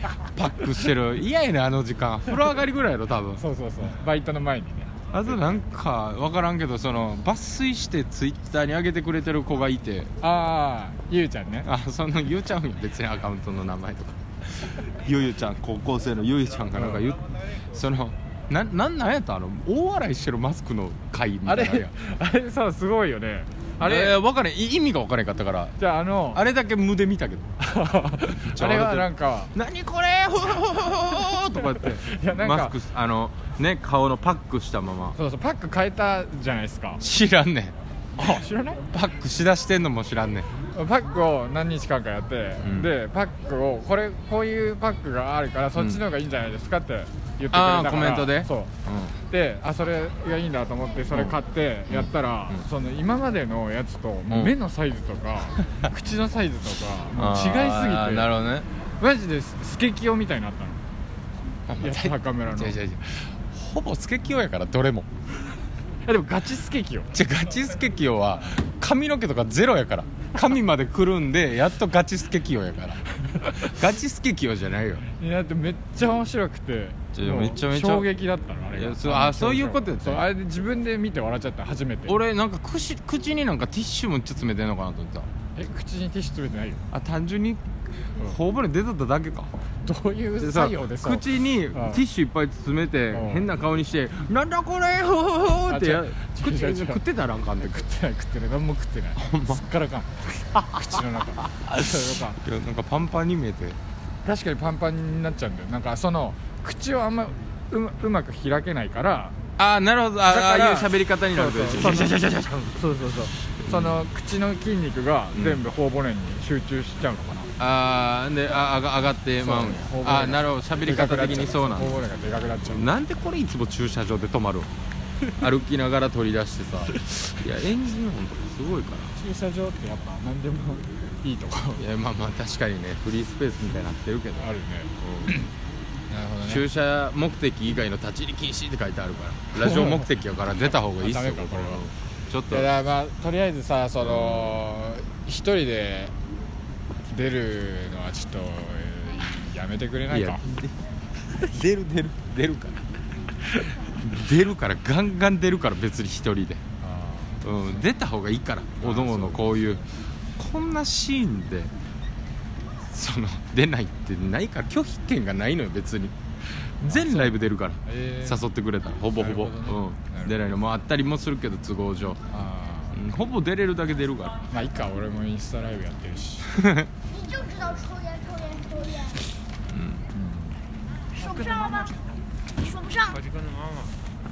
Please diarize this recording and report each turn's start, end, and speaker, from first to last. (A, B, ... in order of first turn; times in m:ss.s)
0:00.1-0:03.4 A
0:03.4-0:05.6 B
0:05.1-0:10.1 A
0:10.2-0:11.7 B
0:11.6-0:22.0 A
0:16.8-0:17.0 B
0:21.5-0:24.2 B
0:23.8-0:25.8 A
0:25.8-0:26.4 B
0:26.3-0:27.6 A
0:27.6-0:29.5 B
0:28.3-0:35.2 A
0:32.0-0:32.8 B
0:35.2-0:37.0 B
0:37.0-0:37.8 A
0:38.2-0:38.8 B
0:38.9-0:40.5 A
0:40.7-0:48.7 B
0:42.6-0:42.9 A
0:45.8-0:46.0 A
0:47.5-0:49.2 A
0:49.3-0:58.3 B
0:51.1-0:51.4 A
0:51.9-0:52.7 A
0:54.3-0:54.5 A
0:57.1-0:58.7 A
0:59.0-1:00.8 B
1:01.7-1:05.1 A
1:01.8-1:02.8 B
1:06.1-1:07.1 B
1:07.1-1:15.0 A
1:15.1-1:22.2 B
1:17.1-1:18.1 A
1:18.7-1:20.3 A
1:22.0-1:25.3 A
1:25.6-1:26.8 B
1:26.9-1:29.5 A
1:29.8-1:31.2 B
1:30.4-1:37.8 A
1:31.7-1:32.0 B
1:33.1-1:33.5 B
1:35.7-1:37.0 B
1:37.6-1:42.4 B
1:39.2-1:39.6 A
1:41.6-1:43.8 A
1:44.2-1:49.4 B
1:49.6-1:52.6 A
1:50.3-1:57.5 B
1:53.6-1:54.0 A
1:55.3-1:55.6 A
1:57.6-2:02.0 A
1:59.4-2:02.9 B
2:02.6-2:04.7 A
2:05.4-2:09.1 A
2:09.2-2:11.8 B
2:11.8-2:14.5 A
2:14.4-2:15.5 B
2:16.1-2:16.6 B
2:16.4-2:22.7 A
2:19.6-2:20.1 B
2:21.0-2:21.9 B
2:22.5-2:26.1 B
2:24.0-2:24.6 A
2:27.0-2:30.4 B
2:30.1-2:30.8 A
2:31.3-2:32.8 A
2:33.5-2:36.6 A
2:36.8-2:37.6 B
2:37.4-2:41.7 A
2:38.8-2:39.8 B
2:42.8-2:46.1 A
2:46.8-2:47.4 B
2:46.8-2:52.2 A
2:47.9-2:48.4 B
2:49.1-2:50.4 B
2:52.3-2:53.0 B
2:52.9-2:54.4 A
2:54.5-2:56.5 B
2:56.5-2:56.9 A
2:57.2-2:59.1 C
2:59.7-3:00.1 A
3:00.1-3:00.6 B
3:01.1-3:02.0 B
3:02.6-3:03.2 C
3:03.2-3:03.7 A